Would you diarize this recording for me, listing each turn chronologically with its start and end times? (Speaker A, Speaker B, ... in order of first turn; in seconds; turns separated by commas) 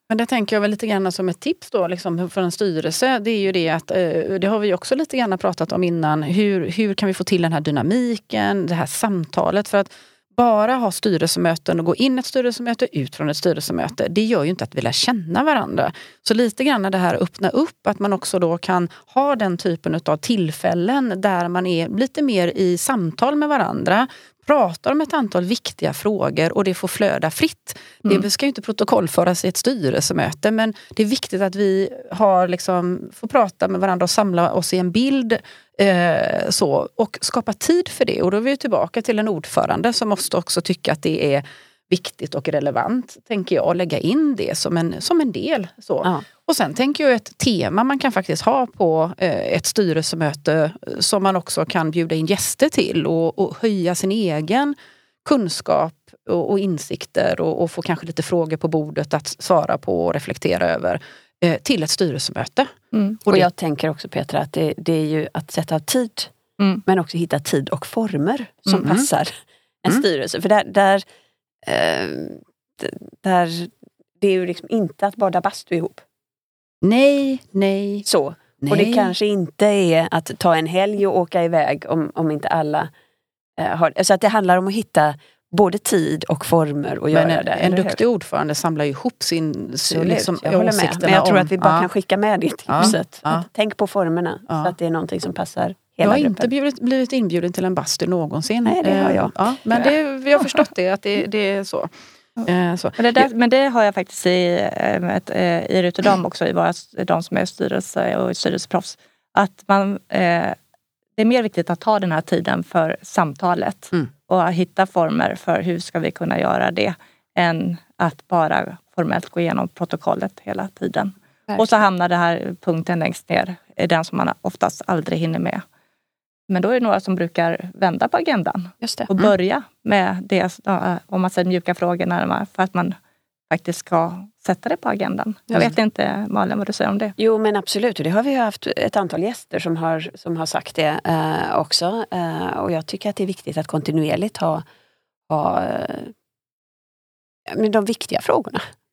Speaker A: 0.1-63.5, Speaker B: 62.9-63.2, Speaker C: 63.3-66.3, Speaker C: 66.8-71.0, Speaker A: 68.8-69.1, Speaker C: 71.6-76.0, Speaker A: 76.8-78.0, Speaker C: 78.0-82.9, Speaker A: 78.6-79.1, Speaker C: 83.6-88.0, Speaker A: 87.1-91.9, Speaker C: 89.8-96.5, Speaker A: 92.7-93.4, Speaker A: 96.0-103.3, Speaker C: 98.7-99.9, Speaker B: 103.0-110.5, Speaker B: 111.2-125.6, Speaker B: 126.5-132.9, Speaker C: 128.8-129.1, Speaker B: 133.5-137.1, Speaker C: 137.2-144.7, Speaker C: 145.3-146.1, Speaker C: 147.5-148.6